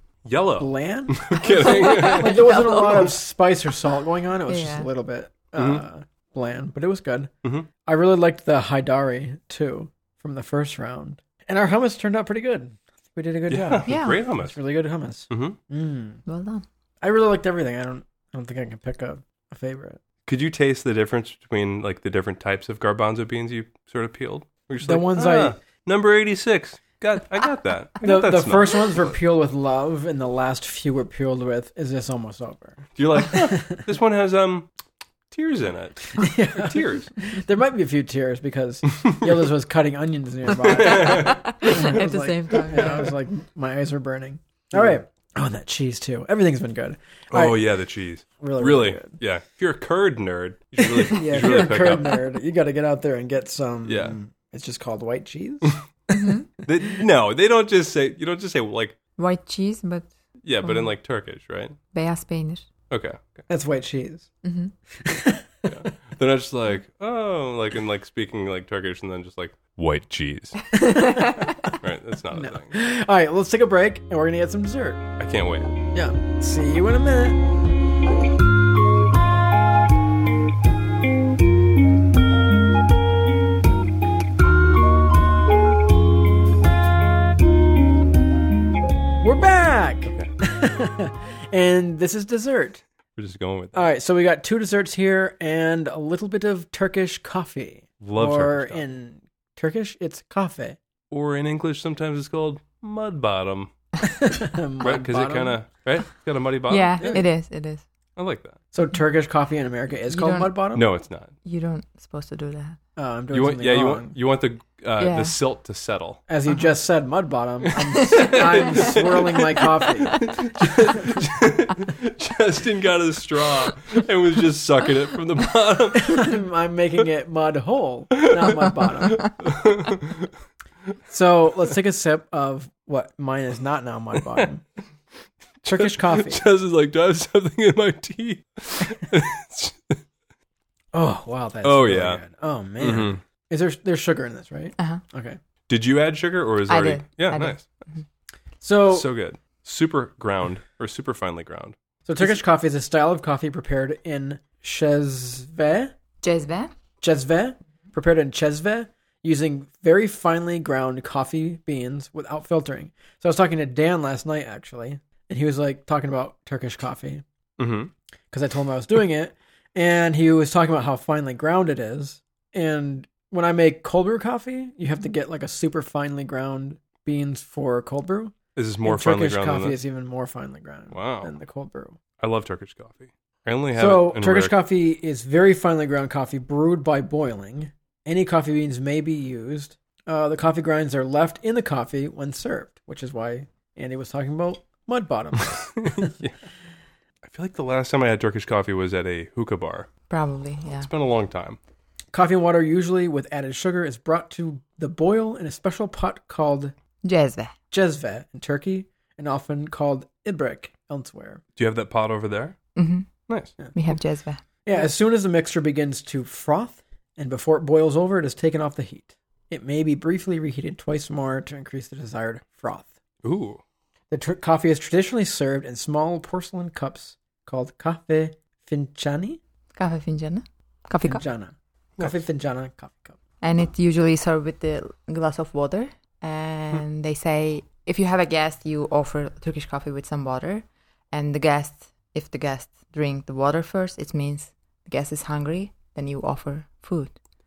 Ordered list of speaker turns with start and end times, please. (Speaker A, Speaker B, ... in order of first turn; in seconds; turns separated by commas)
Speaker A: 0.2-2.9, Speaker B: 0.6-7.3, Speaker C: 1.4-3.1, Speaker C: 4.5-4.9, Speaker A: 5.6-5.8, Speaker B: 7.8-16.2, Speaker A: 13.5-14.6, Speaker C: 13.9-14.2, Speaker A: 15.3-15.6, Speaker C: 16.3-16.6, Speaker B: 17.0-20.0, Speaker A: 20.3-29.0, Speaker B: 24.8-25.6, Speaker B: 28.0-33.9, Speaker A: 33.0-34.7, Speaker A: 35.3-37.1, Speaker B: 36.2-47.6, Speaker A: 40.6-41.8, Speaker C: 40.9-43.1, Speaker A: 47.3-52.2, Speaker B: 48.4-49.2, Speaker B: 51.1-55.8, Speaker A: 53.9-54.2, Speaker C: 56.1-56.5, Speaker A: 56.6-59.0, Speaker C: 59.2-60.1, Speaker A: 60.4-61.8, Speaker C: 60.6-60.9, Speaker C: 61.9-62.7, Speaker A: 62.9-63.5, Speaker B: 63.5-64.3, Speaker C: 64.4-64.7, Speaker B: 65.0-65.7, Speaker A: 65.7-70.7, Speaker C: 70.7-71.7, Speaker B: 70.7-71.7, Speaker A: 71.8-72.7, Speaker B: 72.3-75.0, Speaker A: 75.2-75.7, Speaker B: 75.9-77.4, Speaker B: 89.2-92.8, Speaker A: 93.2-93.9, Speaker B: 93.7-100.8, Speaker A: 98.0-98.8, Speaker A: 101.1-103.7, Speaker B: 104.2-105.5, Speaker A: 104.8-107.2, Speaker C: 106.7-107.8, Speaker A: 108.2-108.6, Speaker B: 108.7-110.9, Speaker C: 110.1-110.6, Speaker A: 110.7-111.3, Speaker C: 111.4-112.8, Speaker B: 113.0-114.2, Speaker A: 113.3-116.2, Speaker C: 115.0-115.3, Speaker B: 116.3-120.3, Speaker A: 118.0-119.4, Speaker C: 118.0-119.0, Speaker C: 119.8-120.3, Speaker A: 120.2-126.4, Speaker B: 126.0-129.3, Speaker A: 128.2-130.3, Speaker B: 131.1-134.6, Speaker B: 135.7-136.4, Speaker A: 135.7-140.0, Speaker B: 140.9-145.4, Speaker A: 141.6-142.2, Speaker A: 142.8-143.2, Speaker A: 145.7-147.7, Speaker C: 146.7-148.0, Speaker B: 148.6-149.1, Speaker A: 148.9-151.8, Speaker B: 152.1-155.9, Speaker C: 156.2-156.7, Speaker B: 157.0-167.2, Speaker A: 167.6-167.9, Speaker B: 168.3-182.0, Speaker A: 178.6-179.8, Speaker A: 180.9-181.3, Speaker A: 182.2-184.6, Speaker B: 183.8-196.1, Speaker A: 195.4-196.3, Speaker A: 197.2-199.9, Speaker C: 200.1-200.9, Speaker A: 200.8-201.6, Speaker B: 202.1-206.7, Speaker C: 207.0-207.5, Speaker B: 207.7-211.4, Speaker A: 211.6-212.6, Speaker C: 212.8-213.1, Speaker A: 213.3-213.5, Speaker C: 213.7-214.4, Speaker B: 214.7-222.9, Speaker A: 223.2-223.6, Speaker B: 224.1-229.4, Speaker C: 229.7-231.2, Speaker B: 231.1-233.2, Speaker C: 233.4-247.2